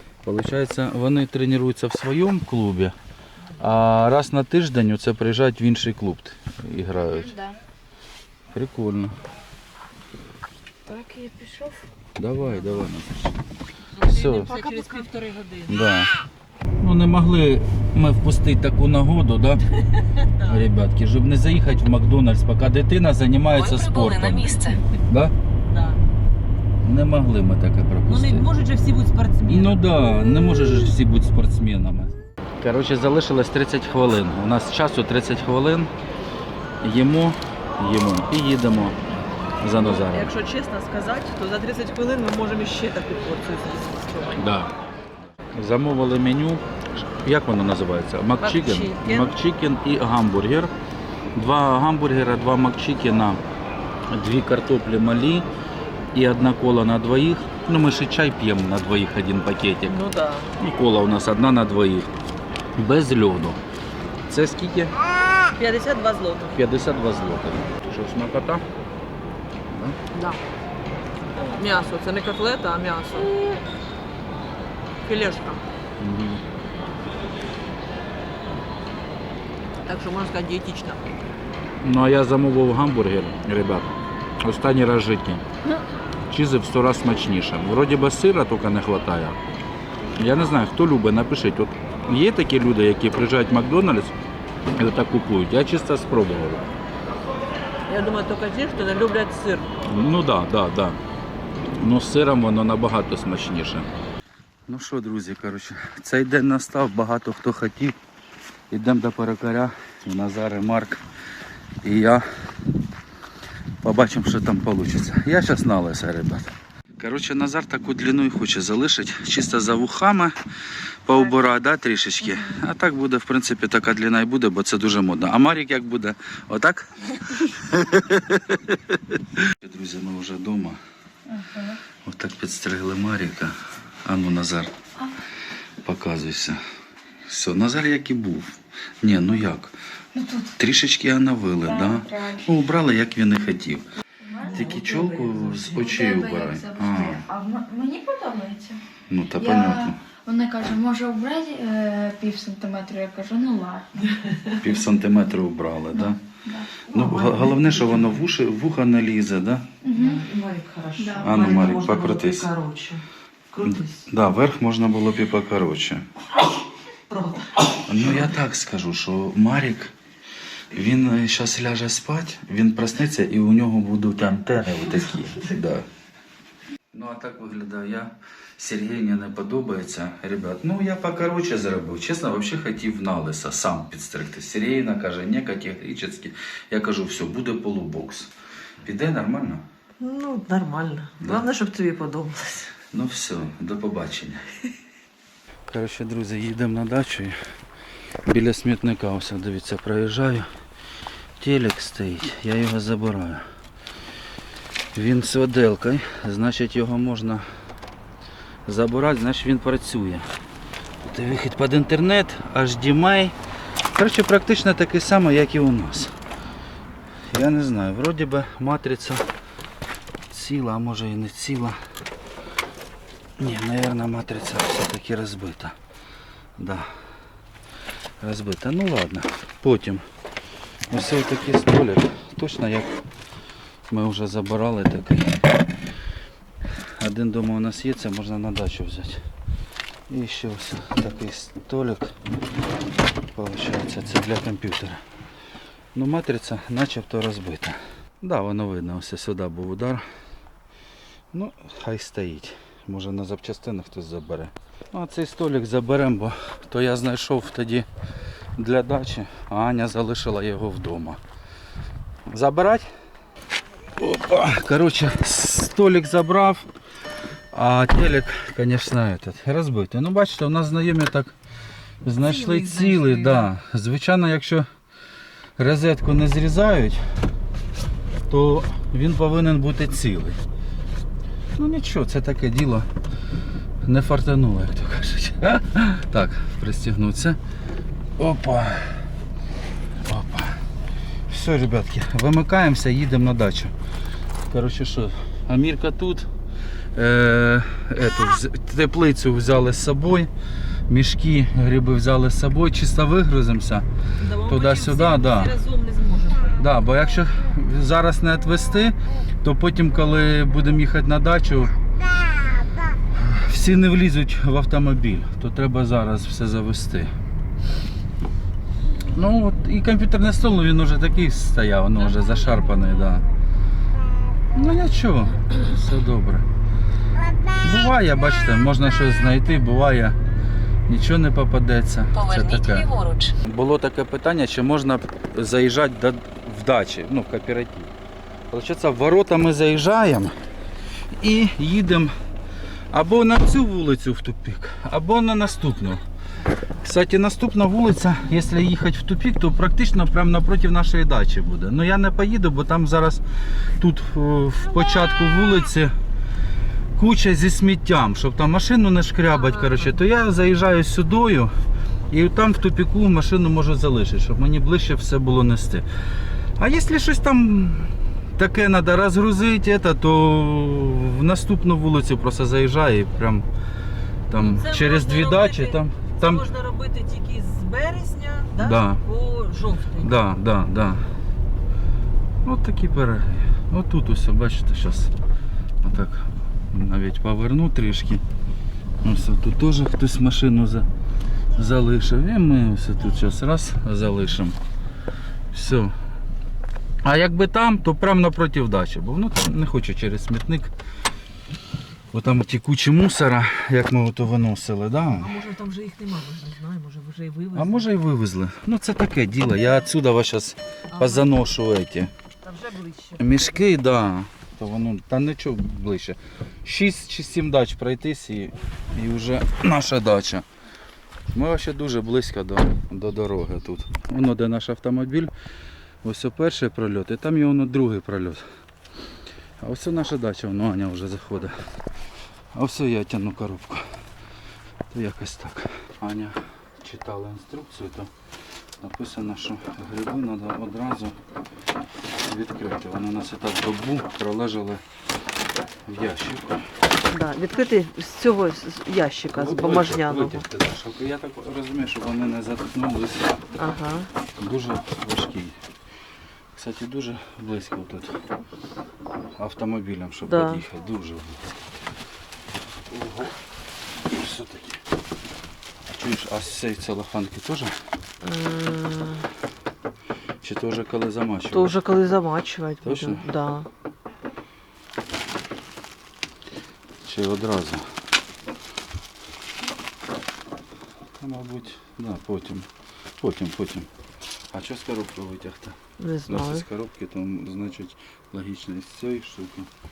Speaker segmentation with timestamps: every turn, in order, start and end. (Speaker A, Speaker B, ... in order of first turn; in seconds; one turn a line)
Speaker A: 0.2-3.0
Speaker A: 3.6-7.4
Speaker B: 7.1-7.5
Speaker A: 8.5-9.2
Speaker C: 10.9-11.8
Speaker A: 12.2-13.4
Speaker C: 14.0-15.7
Speaker A: 14.0-14.6
Speaker A: 15.7-16.1
Speaker A: 16.8-19.7
Speaker C: 19.7-20.7
Speaker A: 20.4-25.3
Speaker C: 23.7-24.7
Speaker B: 24.3-24.6
Speaker C: 25.6-26.0
Speaker A: 26.8-28.5
Speaker C: 28.1-29.8
Speaker A: 29.5-35.9
Speaker A: 36.8-39.0
Speaker A: 39.6-40.3
Speaker C: 39.8-44.5
Speaker A: 44.4-44.7
Speaker A: 45.5-50.7
Speaker C: 48.4-49.4
Speaker A: 51.3-53.4
Speaker A: 54.1-55.5
Speaker A: 56.1-60.0
Speaker C: 59.9-60.5
Speaker A: 60.6-62.1
Speaker A: 62.8-63.6
Speaker A: 64.3-64.9
Speaker C: 65.5-66.6
Speaker A: 66.5-68.7
Speaker A: 69.7-70.0
Speaker C: 70.1-70.4
Speaker C: 71.4-73.6
Speaker C: 75.0-75.6
Speaker A: 76.0-76.4
Speaker C: 79.8-81.0
Speaker A: 81.8-83.9
Speaker A: 84.4-85.5
Speaker A: 86.3-89.4
Speaker A: 90.2-94.2
Speaker A: 94.8-96.7
Speaker C: 97.9-99.8
Speaker A: 99.8-101.0
Speaker A: 101.6-103.9
Speaker A: 104.7-108.0
Speaker A: 108.7-111.0
Speaker A: 111.8-112.3
Speaker A: 113.8-120.3
Speaker A: 121.1-130.8
Speaker B: 131.3-131.8
Speaker A: 132.0-134.7
Speaker A: 135.8-136.6
Speaker A: 137.3-139.8
Speaker B: 140.1-140.6
Speaker A: 140.6-143.9
Speaker B: 141.7-142.5
Speaker B: 144.2-144.7
Speaker C: 144.4-145.8
Speaker A: 144.5-147.3
Speaker B: 145.7-148.8
Speaker A: 149.1-150.0
Speaker B: 149.4-154.1
Speaker C: 154.2-154.5
Speaker A: 154.6-156.2
Speaker B: 155.9-158.1
Speaker A: 156.9-159.7
Speaker B: 159.8-160.2
Speaker C: 160.0-164.1
Speaker B: 161.0-161.8
Speaker A: 161.2-162.5
Speaker A: 163.6-166.1
Speaker C: 167.1-167.9
Speaker A: 167.9-169.9
Speaker A: 170.7-175.9
Speaker A: 176.9-188.3
Speaker A: 188.8-189.6
Speaker C: 190.0-192.7
Speaker A: 191.2-191.5
Speaker A: 192.9-194.4
Speaker A: 195.7-197.4
Speaker A: 198.2-200.5
Speaker A: 201.4-203.4
Speaker A: 204.9-207.4
Speaker A: 208.7-210.3
Speaker A: 211.0-213.4
Speaker A: 213.9-216.2
Speaker A: 217.3-219.3
Speaker A: 220.3-221.8
Speaker A: 223.4-225.8
Speaker A: 226.6-226.9
Speaker A: 228.2-230.1
Speaker A: 230.9-233.0
Speaker A: 233.9-235.6
Speaker A: 236.8-239.3
Speaker A: 240.1-242.2
Speaker A: 243.3-245.0
Speaker A: 245.9-250.0
Speaker A: 251.3-257.9
Speaker A: 258.6-261.2
Speaker A: 262.3-262.9
Speaker A: 264.0-266.7
Speaker A: 267.5-271.4
Speaker A: 272.0-274.7
Speaker C: 272.2-273.5
Speaker A: 275.6-277.0
Speaker A: 278.3-280.4
Speaker A: 281.6-282.9
Speaker A: 283.8-287.4
Speaker A: 288.2-289.1
Speaker A: 290.0-290.7
Speaker A: 291.3-293.7
Speaker A: 294.5-296.3
Speaker A: 296.9-300.3
Speaker A: 300.9-303.9
Speaker C: 304.2-306.7
Speaker A: 304.4-305.6
Speaker A: 306.6-311.8
Speaker A: 313.1-317.1
Speaker A: 319.1-323.3
Speaker A: 324.5-326.5
Speaker A: 327.6-330.2
Speaker A: 330.9-337.9
Speaker B: 332.2-333.4
Speaker A: 338.5-340.4
Speaker A: 341.2-342.1
Speaker A: 342.9-346.0
Speaker A: 346.8-355.9
Speaker A: 357.0-361.5
Speaker C: 359.5-359.9
Speaker A: 362.1-365.9
Speaker A: 366.6-373.5
Speaker A: 374.3-376.5
Speaker C: 374.5-380.1
Speaker A: 378.6-379.0
Speaker A: 380.0-381.0
Speaker A: 382.4-385.1
Speaker A: 385.8-388.2
Speaker A: 389.0-390.9
Speaker A: 391.6-394.6
Speaker A: 395.5-395.9
Speaker A: 397.0-400.7
Speaker A: 402.1-405.4
Speaker C: 405.2-407.9
Speaker A: 407.6-412.1
Speaker C: 410.9-411.3
Speaker C: 412.4-413.6
Speaker A: 413.2-420.5
Speaker A: 421.3-425.3
Speaker A: 426.0-428.4
Speaker A: 429.6-431.6
Speaker A: 432.5-433.9
Speaker A: 434.9-438.1
Speaker A: 438.8-441.2
Speaker A: 442.2-444.8
Speaker A: 445.9-446.7
Speaker C: 447.1-450.4
Speaker A: 449.3-453.5
Speaker C: 453.6-454.1
Speaker A: 454.4-455.6
Speaker A: 456.5-458.2
Speaker A: 459.4-461.8
Speaker C: 460.2-460.6
Speaker A: 462.9-463.4
Speaker A: 463.9-464.8
Speaker A: 465.9-467.8
Speaker C: 468.2-469.3
Speaker A: 470.4-471.8
Speaker C: 471.5-473.7
Speaker A: 472.8-473.3
Speaker A: 477.0-477.9
Speaker A: 481.2-482.7
Speaker A: 483.2-483.9
Speaker A: 484.5-489.7
Speaker C: 486.0-486.7